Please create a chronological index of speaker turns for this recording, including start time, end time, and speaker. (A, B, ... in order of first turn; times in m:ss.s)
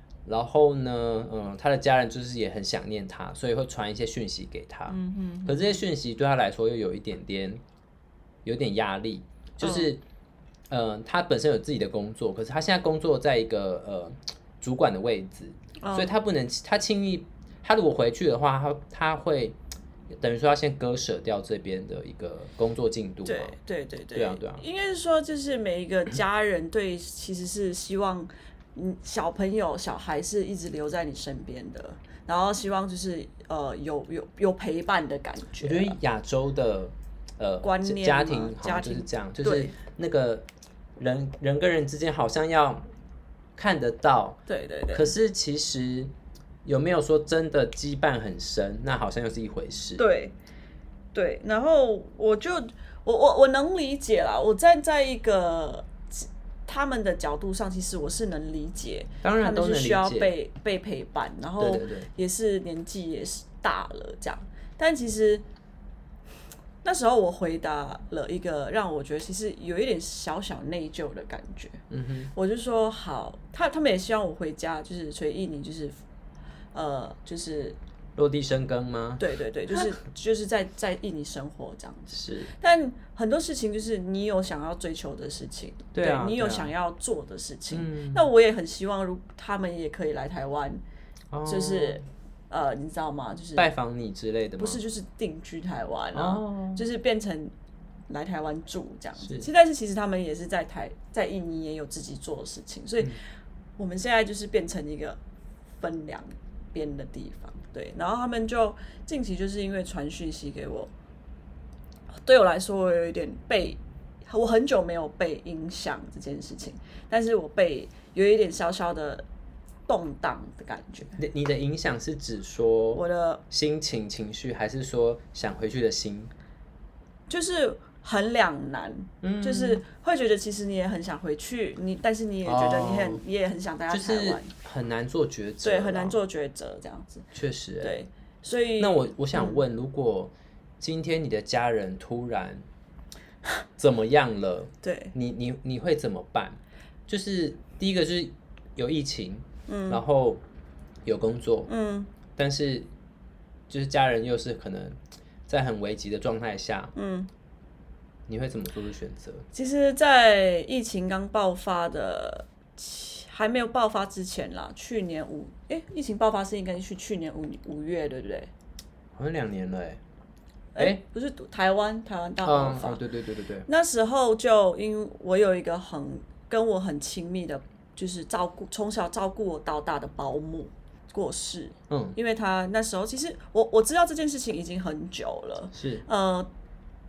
0:00.2-0:07.6 A
0:04.9-0:05.6 B
0:08.4-0:10.0 A
0:09.6-0:09.9 B
0:10.7-0:19.6 A
0:15.8-0:16.1 B
0:20.1-0:23.5 A
0:23.2-0:36.0 B
0:24.1-0:24.6 A
0:35.6-0:40.4 A
0:37.6-0:39.7 B
0:41.0-0:42.9 A
0:43.6-0:44.4 A
0:44.5-0:45.1 B
0:44.9-0:46.1 A
0:46.6-0:50.0 A
0:50.0-0:50.3 B
0:51.1-1:05.4 B
0:59.2-1:00.3 A
1:01.6-1:02.1 A
1:06.8-1:11.8 B
1:11.9-1:12.3 A
1:12.3-1:16.0 B
1:16.7-1:17.8 B
1:18.2-1:19.8 A
1:19.2-1:30.8 B
1:22.1-1:22.5 A
1:25.9-1:26.7 A
1:27.7-1:28.3 A
1:31.3-1:32.0 A
1:31.4-1:33.7 B
1:33.6-1:34.8 A
1:34.6-1:37.5 B
1:36.1-1:36.9 A
1:38.1-1:43.1 B
1:39.2-1:39.5 A
1:43.8-1:45.2 B
1:45.8-1:50.9 B
1:52.2-1:59.2 B
1:59.9-2:01.2 B
2:01.2-2:06.3 A
2:02.9-2:03.4 B
2:07.3-2:14.5 B
2:09.2-2:09.8 A
2:12.4-2:13.2 A
2:13.9-2:16.2 A
2:15.6-2:17.3 B
2:17.3-2:18.0 A
2:17.8-2:19.6 B
2:18.8-2:22.6 A
2:23.8-2:30.4 A
2:24.8-2:25.1 B
2:29.7-2:30.0 B
2:31.0-2:31.7 A
2:31.7-2:32.1 B
2:32.3-2:32.9 A
2:33.7-2:36.9 A
2:36.9-2:37.3 B
2:38.3-2:39.4 A
2:39.5-2:48.5 B
2:49.1-2:50.0 A
2:50.7-2:53.0 B
2:50.8-2:51.0 A
2:52.4-2:53.7 A
2:53.7-3:06.5 B
3:01.9-3:02.2 A
3:05.7-3:06.0 A